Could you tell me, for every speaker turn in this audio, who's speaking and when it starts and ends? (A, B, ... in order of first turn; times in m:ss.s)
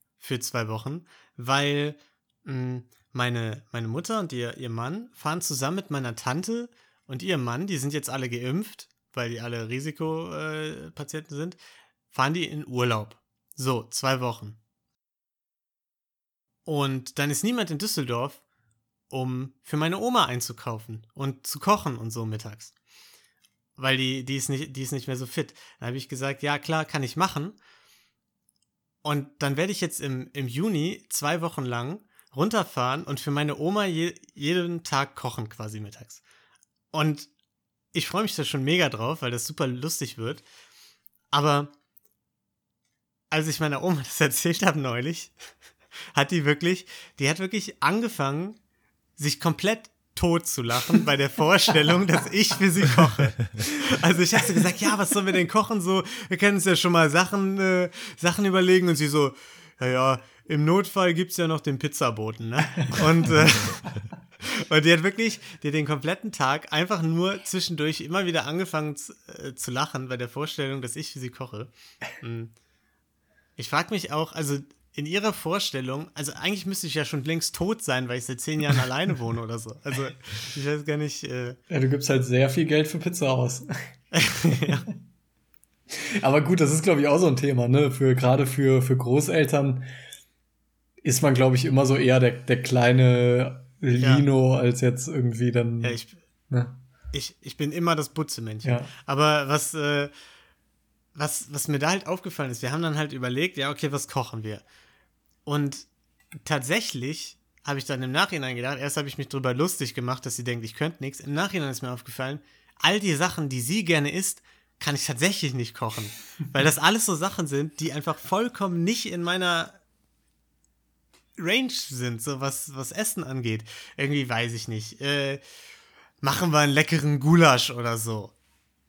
0:00.2-0:11.6 A
0:12.1-0:14.6 A
0:16.6-0:18.4 A
0:19.1-0:22.7 A
0:23.8-0:27.6 A
0:29.0-0:36.2 A
0:36.9-0:37.3 A
0:37.9-0:40.4 A
0:41.3-0:41.7 A
0:43.3-0:45.4 A
0:46.1-0:48.6 A
0:49.2-1:03.9 A
1:04.4-1:12.5 A
1:13.6-1:21.6 A
1:21.7-1:23.7 B
1:24.1-1:24.8 A
1:25.9-1:29.9 B
1:31.0-1:36.0 B
1:34.0-1:34.2 A
1:35.8-1:36.2 A
1:36.5-1:36.8 B
1:37.1-1:40.1 A
1:38.6-1:38.9 B
1:41.1-1:44.6 A
1:45.4-1:45.9 A
1:46.4-1:59.8 A
2:01.4-2:05.4 A
2:06.2-2:08.3 A